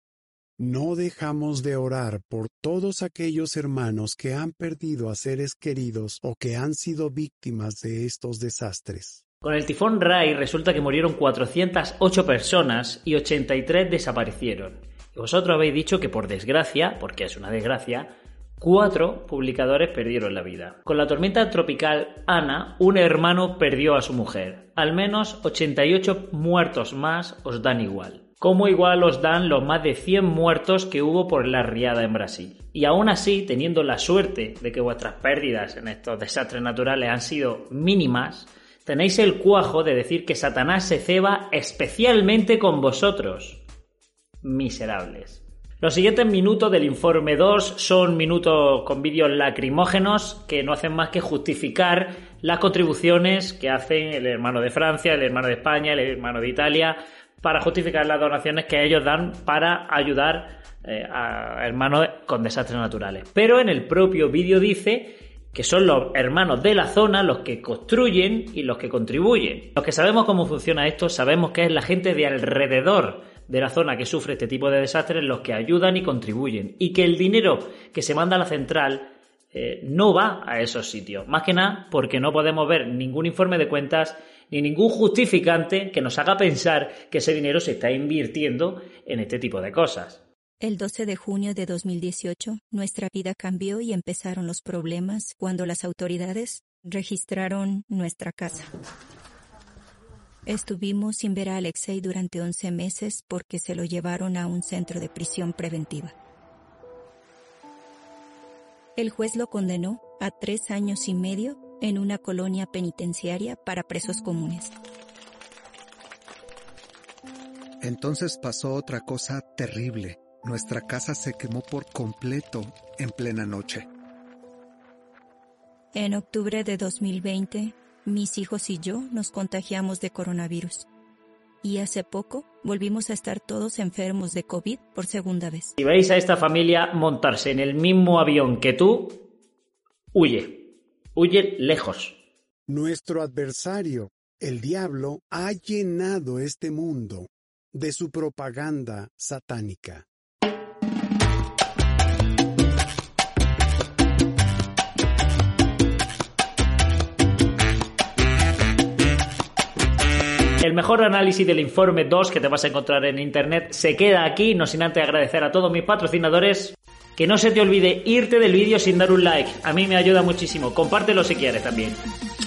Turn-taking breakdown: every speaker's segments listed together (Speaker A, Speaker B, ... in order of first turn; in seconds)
Speaker A: 0.6-9.2, 142.7-150.1
Speaker B: 9.4-43.6, 44.4-90.2, 135.8-139.2, 140.1-142.2, 160.6-172.0
Speaker C: 90.6-98.7, 100.5-106.1, 109.0-114.7, 125.9-130.9, 131.6-135.8
Speaker D: 117.8-123.9